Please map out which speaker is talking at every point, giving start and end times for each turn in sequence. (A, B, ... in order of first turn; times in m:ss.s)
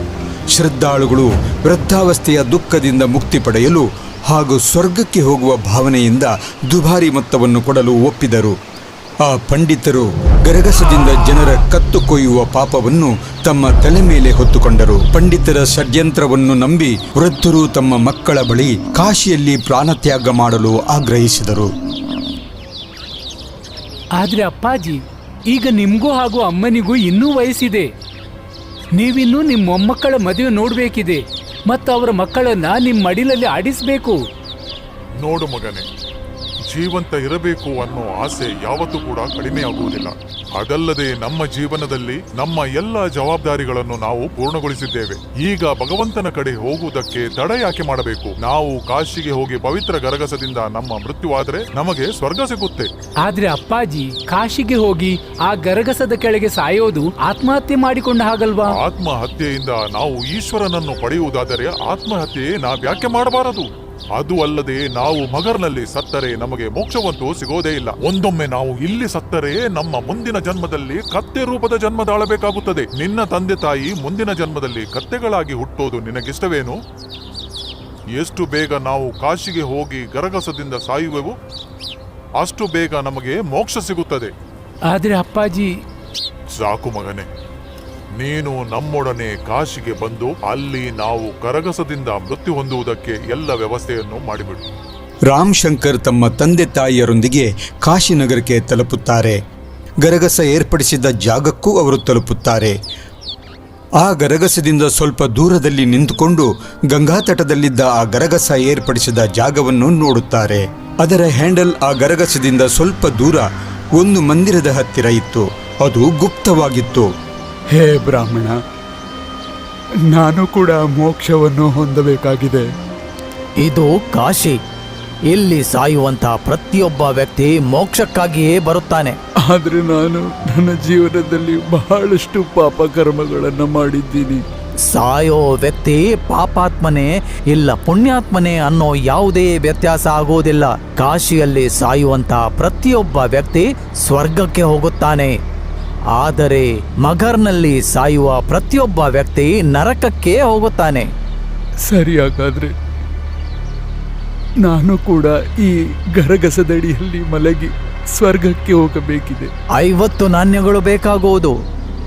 0:00.5-0:08.6 A
0:09.2-0:21.7 A
0:24.2-0:27.9 B
0:29.0-0:34.2 B
0:35.2-0:35.8 C
0:36.7-0:52.9 C
0:53.2-0:58.7 B
0:58.7-1:16.8 C
1:18.1-1:21.4 C
1:22.4-1:24.3 C
1:24.9-1:25.7 B
1:26.6-1:27.3 C
1:28.2-1:34.6 C
1:35.3-1:39.4 A
1:40.0-1:42.8 A
1:44.0-1:53.4 A
1:54.0-1:57.1 A
1:57.7-1:58.6 D
2:00.1-2:02.7 D
2:03.6-2:04.6 E
2:05.3-2:09.1 E
2:09.4-2:14.4 D
2:14.9-2:25.4 E
2:26.1-2:31.1 E
2:31.8-2:32.7 D
2:34.6-2:39.5 D
2:39.8-2:41.5 E